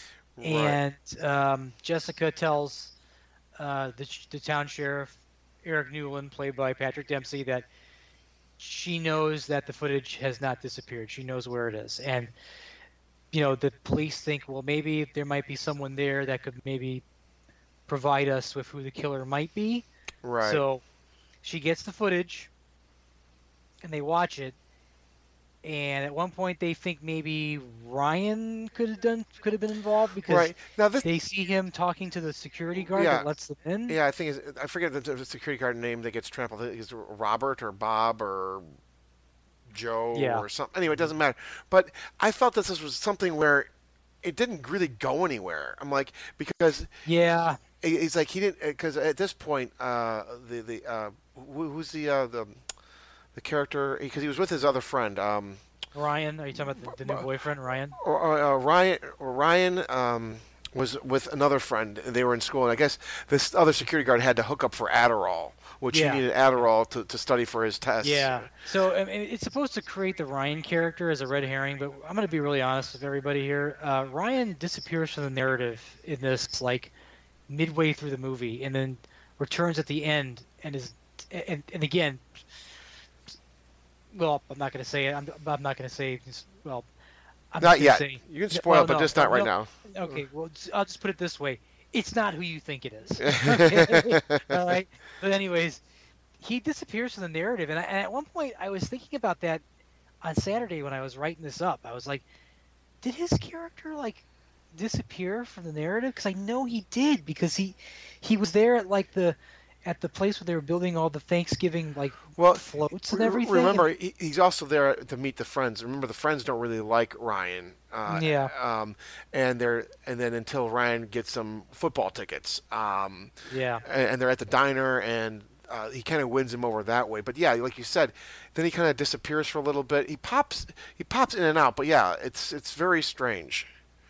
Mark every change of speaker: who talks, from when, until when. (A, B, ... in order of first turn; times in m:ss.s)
0:00.4-0:00.8 A
0:00.4-0:02.9 B
0:03.6-0:07.7 B
0:08.6-0:12.3 B
0:13.3-0:17.0 B
0:17.9-0:19.8 B
0:20.2-0:20.6 A
0:20.4-0:20.8 B
0:21.4-0:22.5 B
0:23.8-0:24.6 B
0:25.6-0:34.0 B
0:30.3-0:31.0 A
0:32.9-0:33.3 A
0:33.9-0:38.6 A
0:39.7-0:43.7 A
0:40.1-0:40.4 B
0:44.2-0:46.9 A
0:47.0-0:47.6 B
0:47.8-0:52.6 A
0:53.3-0:55.6 A
0:55.9-0:57.9 B
0:56.5-0:57.2 A
0:58.0-1:08.5 A
1:05.9-1:06.6 B
1:08.0-1:16.9 B
1:17.5-1:22.3 B
1:24.1-1:26.9 B
1:27.5-1:35.8 B
1:27.6-1:30.2 A
1:33.2-1:34.6 A
1:36.4-1:39.6 B
1:40.2-1:42.2 B
1:43.0-1:53.8 B
1:52.4-2:03.3 A
1:58.1-1:58.5 B
2:03.5-2:03.8 B
2:03.8-2:13.7 A